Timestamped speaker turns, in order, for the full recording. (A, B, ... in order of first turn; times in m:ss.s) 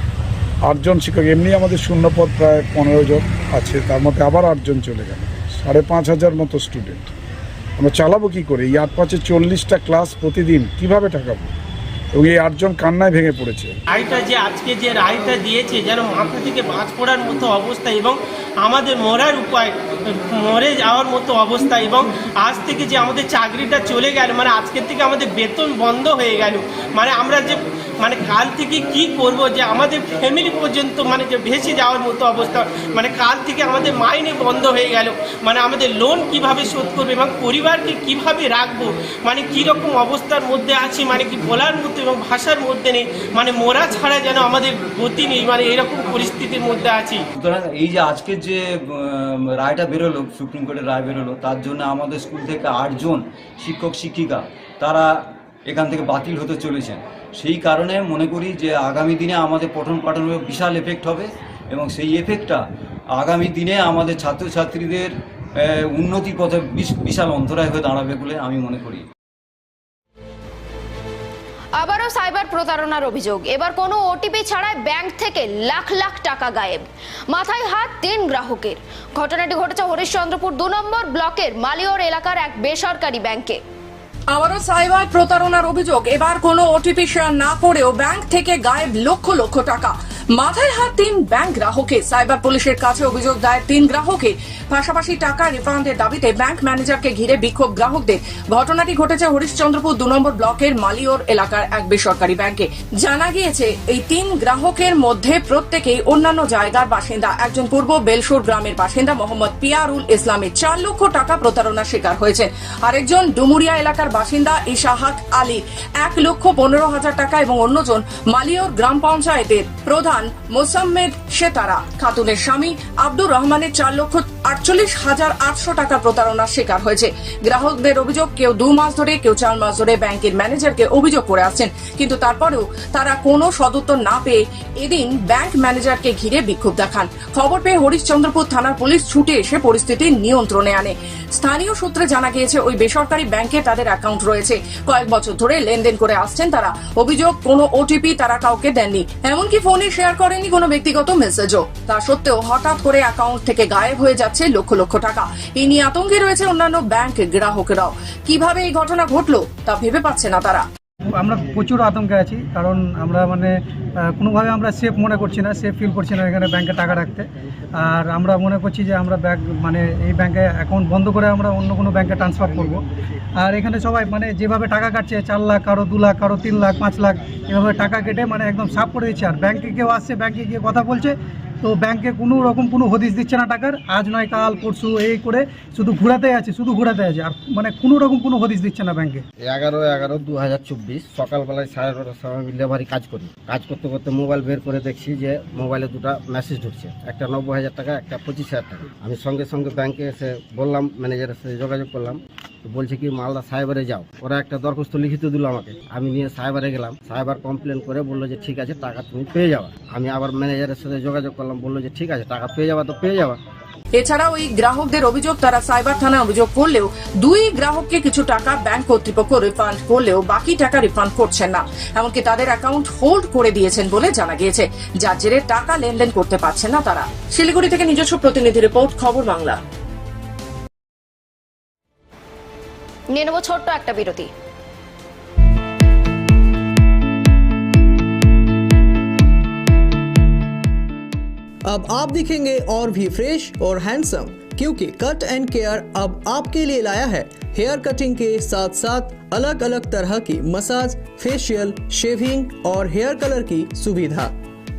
0:00.7-0:07.1 A
0:07.8-0:11.5 A
0:12.1-0:13.7 A
0:13.9-0:47.2 B
0:47.4-1:02.6 C
1:03.1-1:09.0 C
1:11.8-1:23.6 D
1:24.3-2:40.6 E
2:41.2-2:43.5 F
2:44.2-2:47.2 F
2:47.8-2:52.8 F
2:53.4-3:09.2 F
3:09.4-3:33.4 G
3:33.9-3:49.6 E
3:53.1-3:54.3 D
4:01.7-4:14.3 H